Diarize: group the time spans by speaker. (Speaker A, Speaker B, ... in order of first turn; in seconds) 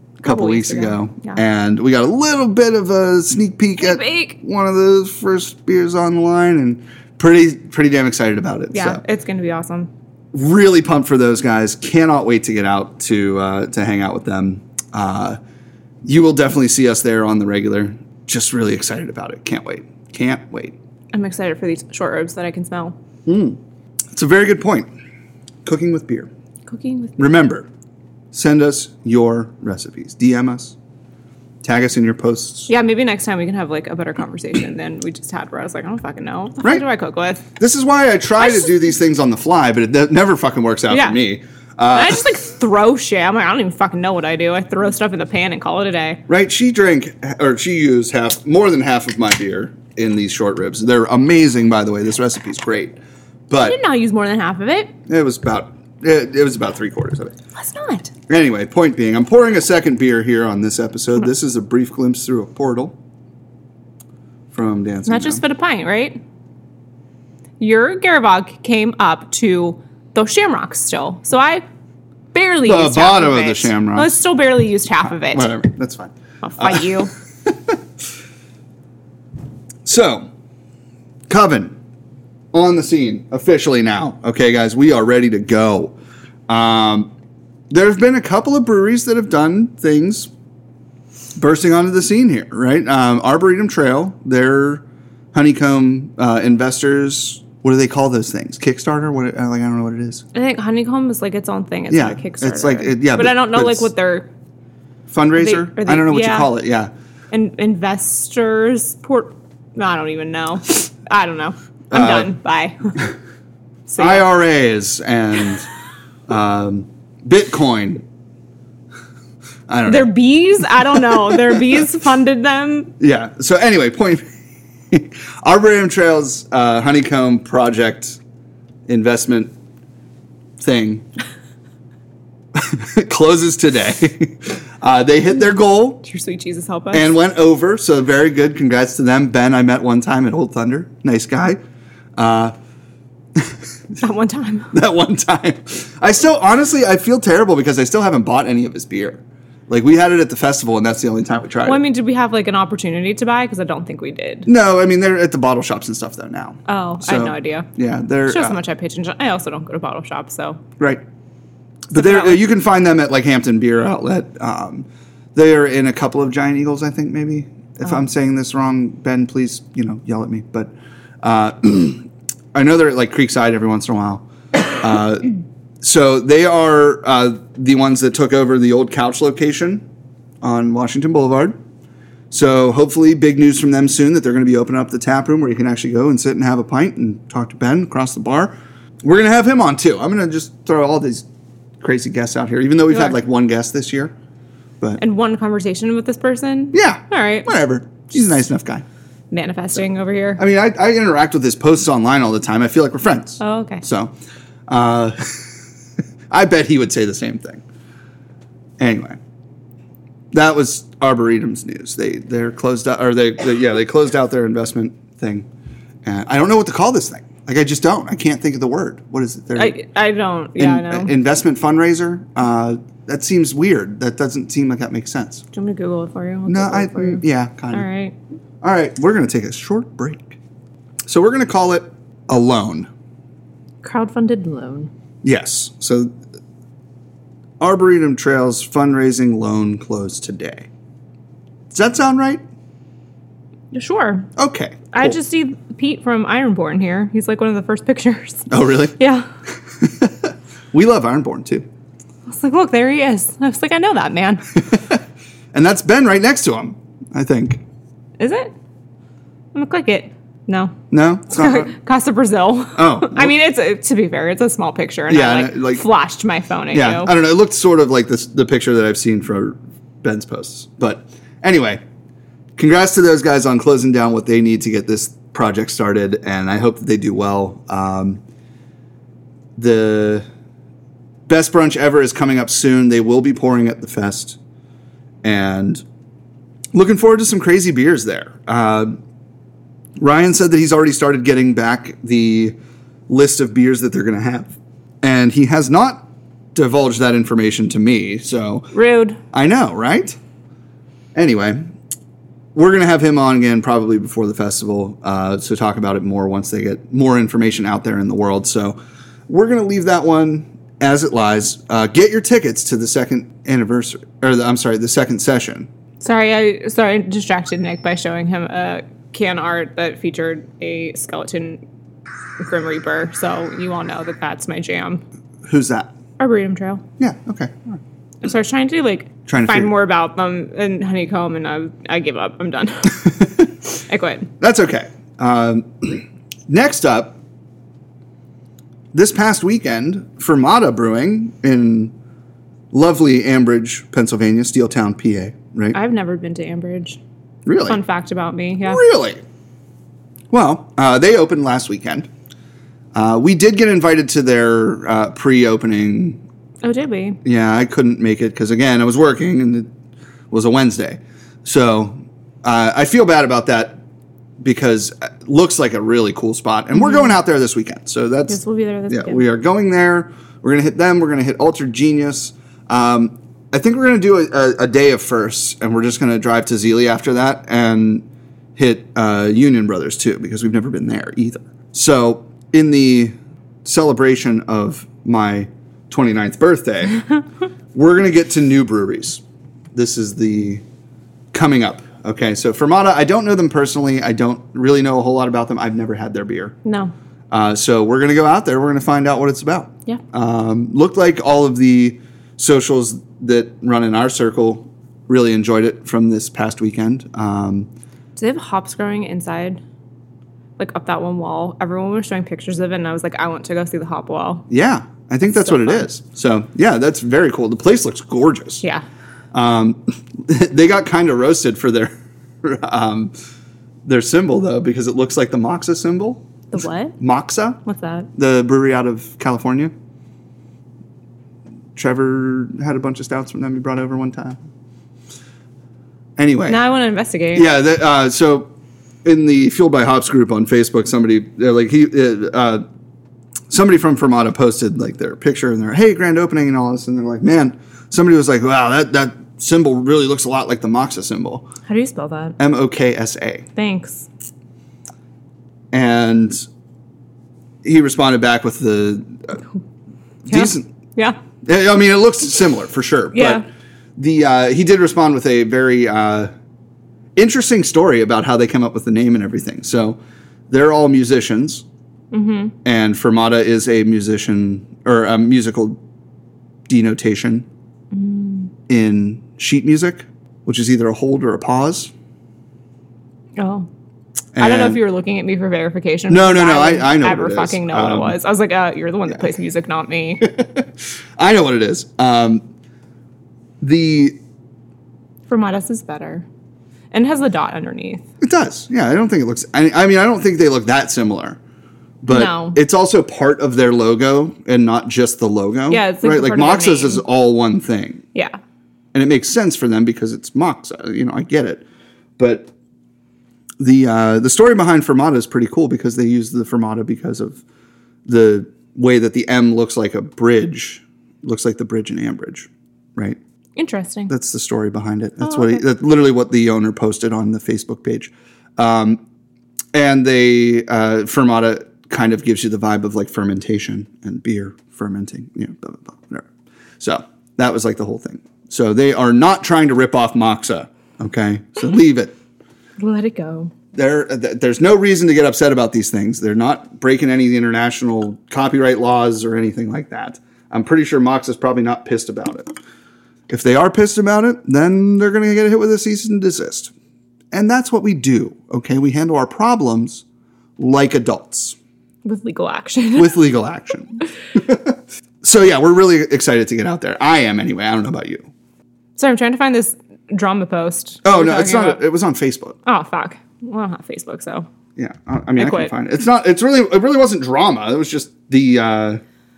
Speaker A: 0.2-9.0, 10.3-15.4, 16.0-20.8, 23.3-23.6, 24.1-24.9, 25.6-26.3, 27.2-27.7, 28.3-30.8, 31.6-32.7, 37.6-42.3, 46.3-53.0, 53.5-53.8, 55.1-57.3, 58.3-63.0, 64.5-65.4, 72.6-74.1, 75.0-77.8, 79.8-80.3, 81.3-81.8, 82.5-86.0, 86.5-87.1, 87.7-90.3, 91.4-100.2, 101.9-103.9, 105.1-106.9, 111.9-112.3, 114.0-115.7, 116.3-118.0, 119.7-120.1, 120.9-121.6, 123.0-124.3, 124.9-128.2, 128.9-129.5, 130.6-131.1, 132.5-136.0, 136.9-141.6, 142.2-142.5, 144.7-151.8, 154.5-158.6, 161.9-179.8, 180.4-181.6, 182.3-191.3, 191.8-194.1, 196.7-198.8, 200.4-204.1, 204.7-205.5, 206.3-207.6, 208.8-209.2, 210.3-215.5, 216.1-219.8, 220.6-225.4, 226.5-227.9, 228.6-230.4, 231.1-232.9, 235.2-236.1, 237.6-240.7, 241.7-242.4, 244.4-245.2, 248.5-249.0, 249.8-251.7, 254.7-255.0, 255.5-257.6, 260.9-261.7, 262.8-263.3, 265.1-265.8, 266.7-271.8, 272.6-278.2, 279.6-280.2, 281.3-284.4, 285.2-285.8, 286.7-288.9, 290.0-292.5, 293.1-298.7, 299.3-300.2, 301.1-301.6, 302.6-308.8, 309.3-315.7, 325.4-325.9, 327.0-327.8, 329.3-329.7, 333.2-333.5, 334.4-337.2, 338.9-341.9, 342.7-345.8, 347.5-347.8, 348.6-349.2, 350.3-352.1, 352.9-356.2, 357.2-359.7, 360.3-363.8, 364.4-387.1, 387.7-389.2, 389.7-390.6, 391.3-396.6, 397.3-407.7, 414.5-418.6, 419.3-423.1, 423.9-426.2, 427.0-427.6, 428.2-429.7, 431.8-434.4, 436.2-436.6, 437.4-438.5, 439.0-442.6, 443.5-451.5, 452.4-453.5, 455.7-456.4, 457.6-459.4, 460.3-460.7, 461.4-463.4, 464.0-466.3, 467.2-470.0, 470.5-471.6, 472.6-475.8, 476.7-477.5, 478.7-481.9, 484.3-484.8, 486.1-488.2, 490.2-492.4, 493.6-494.2, 498.2-501.4, 502.0-508.0, 508.9-511.6, 512.2-512.5, 513.6-517.4, 518.1-523.2, 524.1-529.0, 529.7-536.3, 536.8-542.1, 543.7-552.5, 553.3-556.7, 557.3-560.0, 560.6-561.6, 563.0-568.3, 571.0-572.6, 574.8-579.0
Speaker B: 0.2-1.4, 3.8-4.4, 8.7-9.9, 21.1-23.0, 26.7-27.2, 32.7-37.5, 38.4-38.7, 40.9-41.2, 41.9-46.2, 53.6-54.9, 57.6-58.1, 65.1-66.2, 67.6-71.6, 72.3-75.5, 76.4-77.1, 100.3-104.3, 105.4-106.5, 107.3-113.1, 113.9-114.3, 119.9-122.9, 136.0-137.2, 144.0-144.7, 151.6-154.5, 156.7-157.7, 158.3-160.6, 161.9-162.4, 192.9-193.2, 195.0-197.5, 199.3-200.4, 203.4-203.8, 219.6-221.1, 225.5-228.1, 233.8-234.9, 243.7-244.3, 244.9-249.3, 252.3-254.5, 258.2-258.5, 259.5-260.8, 261.3-267.1, 298.7-299.2, 316.0-321.6, 322.4-325.0, 326.2-326.8, 328.2-333.3, 333.9-334.3, 345.7-347.0, 347.7-348.8, 356.6-357.2, 366.7-367.1, 368.3-369.3, 396.6-396.9, 408.2-409.6, 410.6-414.5, 415.2-415.9, 426.5-427.0, 427.6-428.1, 436.5-437.5, 451.7-452.4, 453.6-454.1, 460.3-461.2, 463.1-463.4, 472.1-472.6, 477.9-478.5, 483.4-483.7, 484.4-490.3, 495.3-496.3, 496.9-498.1, 502.1-502.6, 505.7-507.0, 523.6-524.1, 525.2-525.6, 542.8-543.5, 562.0-563.2, 569.0-571.8, 572.6-574.5, 575.4-575.7